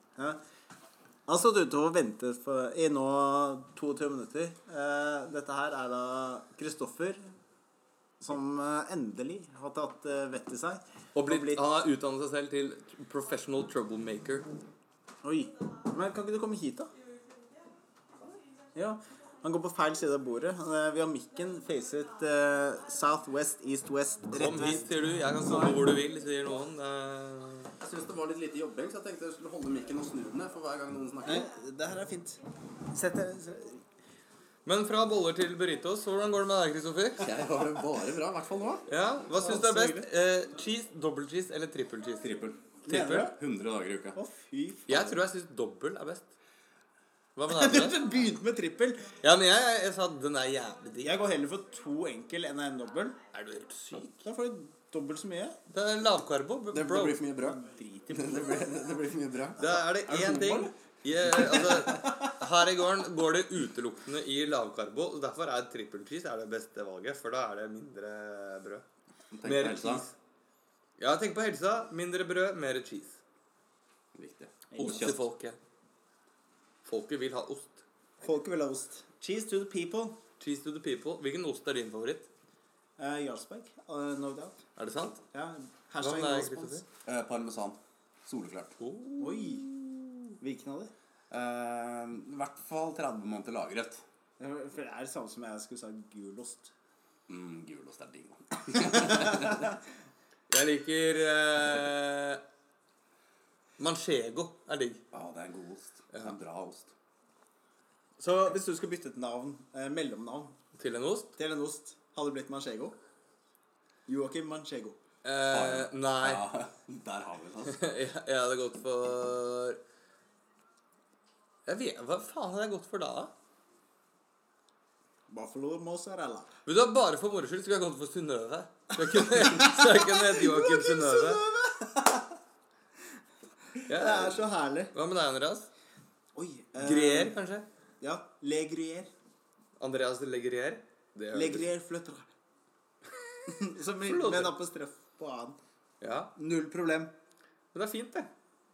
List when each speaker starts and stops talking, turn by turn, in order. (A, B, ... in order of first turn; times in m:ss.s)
0:01.3-0:07.3 A
0:08.2-0:11.6 A
0:11.1-0:14.5 B
0:15.2-0:16.9 A
0:18.7-0:25.8 A
0:24.3-0:27.7 B
0:27.8-0:31.5 C
0:31.2-0:32.4 A
0:32.9-0:33.8 A
0:34.6-0:37.3 B
0:37.2-0:38.8 C
0:38.9-0:43.3 B
0:39.4-0:40.1 A
0:42.2-0:42.6 C
0:42.9-0:43.3 A
0:43.3-0:44.2 C
0:44.2-0:45.2 A
0:44.9-0:46.3 B
0:47.4-0:48.0 B
0:47.5-0:49.2 A
0:49.2-0:51.1 B
0:51.0-0:53.2 A
0:53.3-0:54.2 B
0:54.2-0:55.6 A
0:55.7-0:57.2 B
0:56.7-1:00.7 C
0:57.5-0:58.6 A
0:59.6-1:08.8 B
1:00.1-1:00.7 A
1:01.8-1:02.3 A
1:09.3-1:10.0 C
1:09.4-1:10.1 B
1:11.0-1:13.2 B
1:14.1-1:15.2 C
1:14.7-1:15.2 A
1:14.8-1:15.6 B
1:16.8-1:17.8 B
1:18.2-1:20.2 A
1:20.4-1:22.3 B
1:23.0-1:24.6 A
1:24.8-1:25.2 B
1:25.3-1:26.8 A
1:26.0-1:26.8 B
1:27.0-1:28.7 C
1:28.8-1:30.3 B
1:29.2-1:29.7 A
1:30.4-1:30.9 A
1:31.3-1:34.0 C
1:34.4-1:36.7 A
1:37.3-1:39.7 C
1:39.1-1:39.5 A
1:40.5-1:42.4 B
1:43.8-1:45.0 B
1:45.1-1:46.9 C
1:48.2-1:50.5 A
1:50.8-1:51.4 B
1:51.4-1:52.9 A
1:54.1-1:55.0 A
1:55.2-1:56.4 B
1:55.5-1:57.8 C
1:57.7-1:59.8 B
2:01.6-2:03.3 B
2:05.3-2:06.5 A
2:06.6-2:11.4 B
2:09.1-2:12.4 A
2:13.8-2:14.9 A
2:13.9-2:15.7 B
2:16.3-2:17.4 A
2:16.8-2:17.6 B
2:18.0-2:19.1 A
2:19.8-2:21.7 B
2:21.3-2:22.3 A
2:23.5-2:25.6 A
2:24.1-2:24.5 B
2:26.0-2:26.3 B
2:26.4-2:27.1 A
2:27.7-2:28.3 B